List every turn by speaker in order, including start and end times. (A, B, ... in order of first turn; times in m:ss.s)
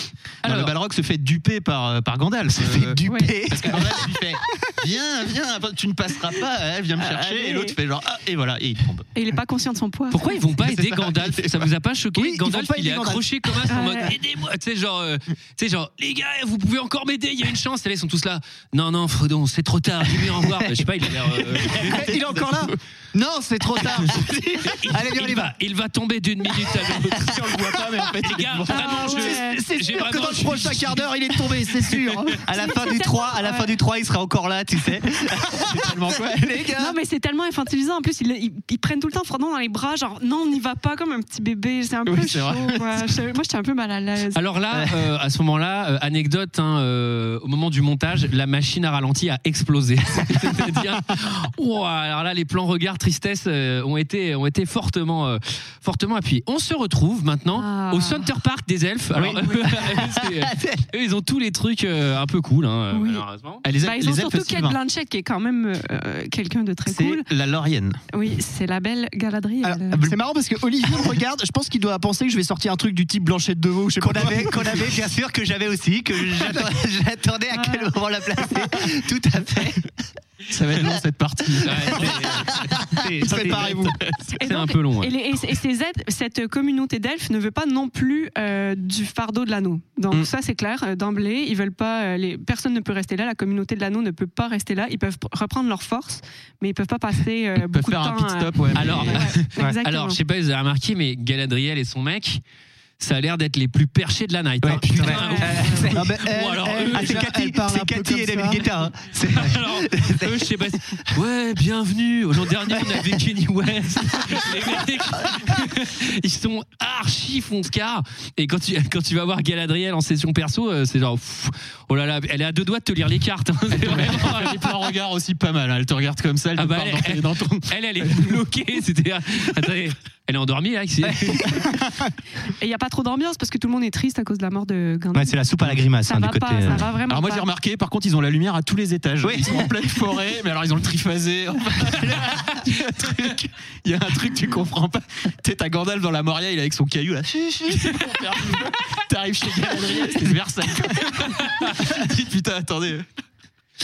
0:00.4-0:09.1 A
0:00.4-0:00.7 B
0:02.5-0:04.2 C
0:03.0-0:03.4 D
0:07.0-0:07.7 D
0:09.1-0:10.3 D
0:10.1-0:22.1 B
0:10.6-0:11.7 A
0:12.2-0:13.2 E
0:13.7-0:14.1 D
0:21.5-0:22.8 A
0:21.9-0:24.7 E
0:23.8-0:24.2 A
0:24.6-0:27.4 B
0:24.8-0:25.5 C
0:27.0-0:29.4 A
0:28.2-0:31.1 B
0:28.7-0:29.6 D
0:29.1-0:32.4 E
0:32.4-0:36.9 C
0:32.5-0:33.7 D
0:35.5-0:36.7 A
0:36.7-0:44.4 D
0:42.0-0:43.0 A
0:44.3-1:03.6 B
0:57.5-0:58.3 D
0:59.2-1:00.8 C
1:02.9-1:03.2 D
1:03.6-1:04.8 A
1:03.8-1:07.3 D
1:06.9-1:08.0 A
1:08.1-1:10.2 D
1:09.6-1:14.9 E
1:14.0-1:19.9 C
1:17.5-1:17.9 D
1:20.5-1:24.3 A
1:21.6-1:22.5 B
1:22.0-1:23.8 C
1:23.2-1:24.0 E
1:24.3-1:40.2 D
1:24.4-1:25.1 B
1:37.6-1:39.4 A
1:38.7-1:42.4 B
1:43.0-1:47.3 B
1:44.6-1:50.6 C
1:45.0-1:45.9 D
1:45.9-1:48.7 E
1:49.2-2:04.6 B
1:52.7-1:53.2 C
1:54.2-1:54.8 C
2:03.7-2:08.4 A
2:06.6-2:11.6 B
2:12.6-2:17.5 D
2:15.1-2:16.9 C
2:17.1-2:33.0 A
2:19.2-2:19.7 C
2:31.0-2:31.8 B